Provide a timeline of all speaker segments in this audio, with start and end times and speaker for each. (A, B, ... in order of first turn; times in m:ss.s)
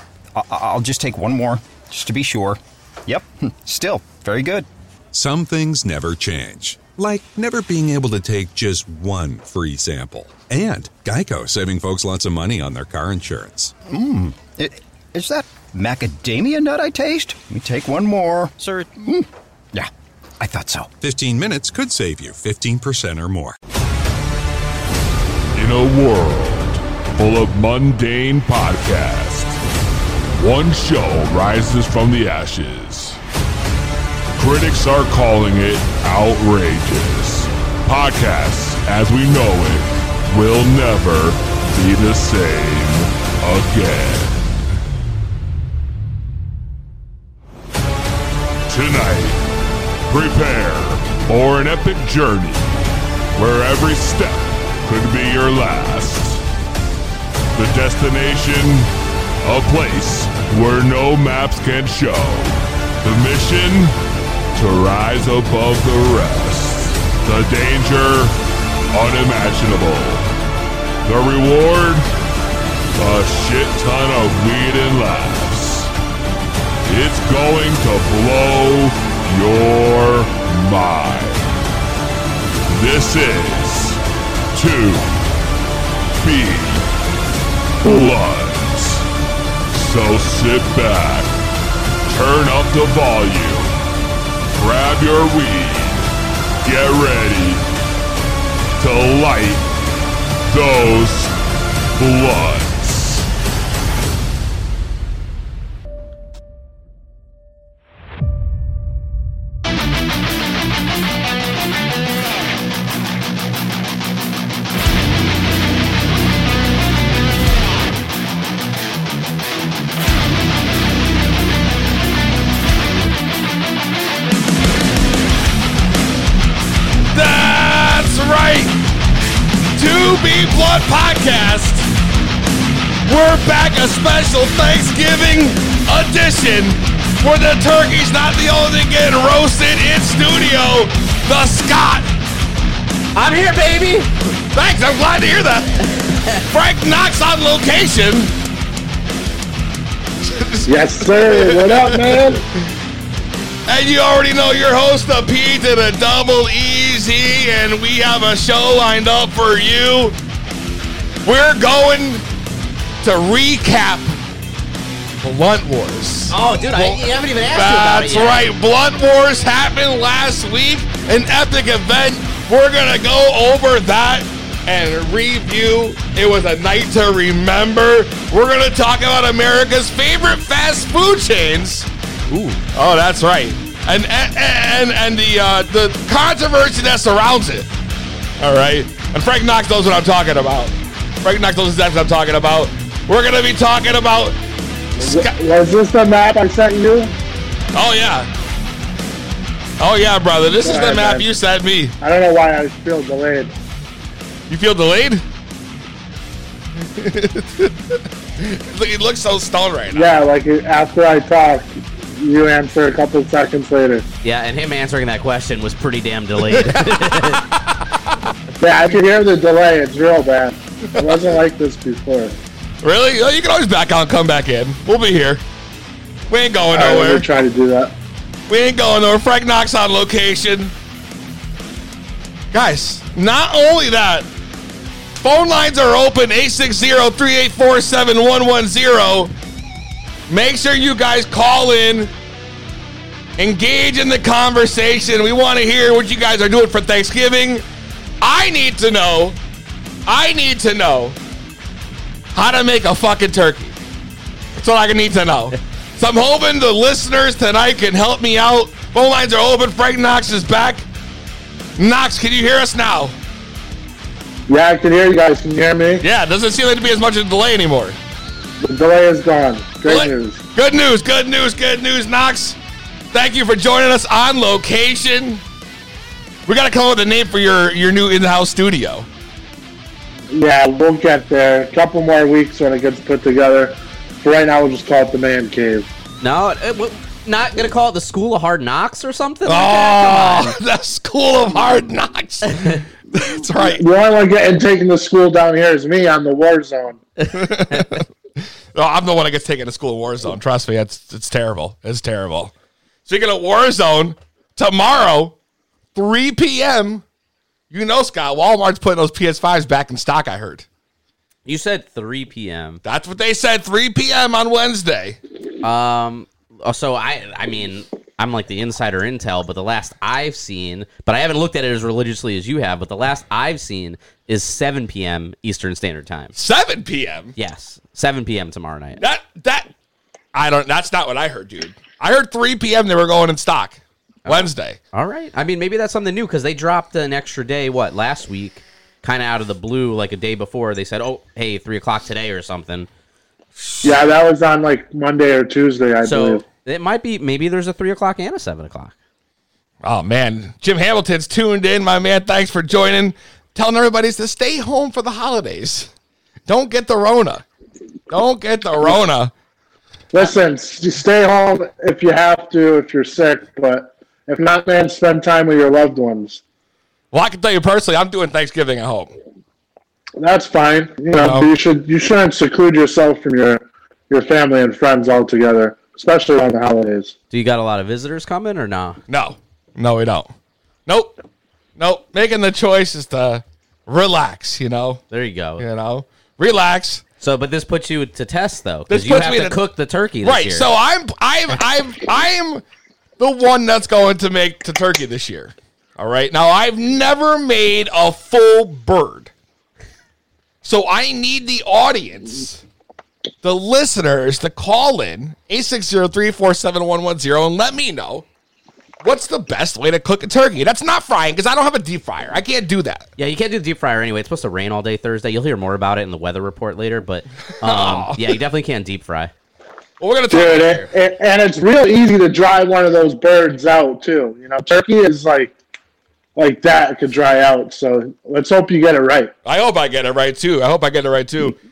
0:00.3-0:04.7 A
0:05.1-0:13.7 B
0:13.9-0:20.9 A
0:20.9-0:23.6 B
0:25.5-0:29.6 C
0:30.3-0:33.2 C
0:34.4-0:44.5 C
0:48.7-0:49.4 C
0:50.1-0:52.7 C
0:53.3-0:56.4 C
0:57.5-0:58.9 C
0:59.4-1:03.9 C
1:04.5-1:08.3 C
1:08.9-1:10.3 C
1:11.0-1:12.0 C
1:12.9-1:15.9 C
1:16.8-1:21.5 C
1:22.7-1:24.0 C
1:24.5-1:25.1 C
1:26.2-1:26.9 C
1:27.8-1:29.0 C
1:29.7-1:31.3 C
1:32.0-1:33.7 C
1:34.5-1:36.1 C
1:36.6-1:37.6 C
1:38.8-1:39.7 C
1:40.5-1:41.4 C
1:41.9-1:43.3 C
2:07.1-2:08.7 D
2:09.8-2:11.9 D
2:13.1-2:22.1 D
2:23.1-2:24.1 E
2:24.5-2:25.8 D
2:26.4-2:28.3 D
2:30.2-2:32.4 D
2:30.6-2:32.4 F
2:33.7-2:40.1 D
2:41.2-2:42.2 D
2:43.0-2:44.1 D
2:45.2-3:01.9 D
2:46.3-2:48.4 E
3:02.3-3:02.6 E
3:02.7-3:07.7 D
3:08.4-3:14.4 D
3:15.0-3:15.3 D
3:15.0-3:17.1 F
3:17.7-3:18.3 D
3:19.8-3:21.9 D
3:20.6-3:21.2 F
3:22.0-3:23.5 F
3:24.5-3:25.2 D
3:26.9-3:30.1 D
3:29.9-3:34.0 F
3:34.2-3:37.5 E
3:36.5-3:37.7 D
3:38.6-3:42.4 F
3:40.9-3:41.2 D
3:42.8-3:45.4 D
3:46.3-3:47.2 D
3:46.7-3:47.9 F
3:48.5-3:50.7 D
3:52.5-3:54.3 D
3:55.2-3:59.3 D
4:00.3-4:02.1 D
4:03.4-4:07.6 D
4:08.2-4:09.4 D
4:10.0-4:11.2 D
4:12.3-4:13.8 D
4:14.6-4:20.8 D
4:21.8-4:23.1 D
4:24.5-4:26.0 F
4:26.0-4:28.0 D
4:28.6-4:30.4 F
4:29.8-4:32.6 D
4:33.1-4:35.4 D
4:36.4-4:39.1 D
4:40.3-4:45.9 F
4:46.2-4:50.5 E
4:49.4-4:53.8 D
4:52.5-4:52.8 E
4:53.5-4:57.0 F
4:57.2-4:57.9 E
4:57.3-4:58.0 D
4:58.7-5:02.5 D
5:03.0-5:05.3 D
5:05.9-5:07.0 D
5:07.7-5:10.6 D
5:11.4-5:12.8 E
5:12.8-5:15.2 D
5:15.6-5:26.3 E
5:26.3-5:27.3 D
5:27.4-5:29.0 E
5:29.0-5:29.7 D
5:30.3-5:34.8 D
5:34.2-5:42.9 E
5:43.8-5:46.4 F
5:46.0-5:48.9 E
5:49.8-5:55.9 D
5:56.5-5:57.4 D
5:58.1-5:59.3 D
6:00.1-6:06.4 F
6:07.1-6:09.1 D
6:10.2-6:17.1 F
6:11.2-6:11.5 D
6:17.3-6:19.0 E
6:19.1-6:20.3 D
6:20.9-6:21.1 D
6:21.8-6:25.0 D
6:25.1-6:25.6 E
6:25.6-6:27.0 D
6:27.2-6:30.7 E
6:28.9-6:29.6 D
6:30.2-6:32.6 D
6:33.2-6:39.3 D
6:40.6-6:42.6 D
6:43.4-6:48.2 D
6:49.0-6:53.1 D
6:53.2-6:59.3 E
6:57.6-6:58.4 D
7:00.0-7:00.8 D
7:00.3-7:05.5 F
7:06.4-7:09.3 F
7:09.4-7:11.6 D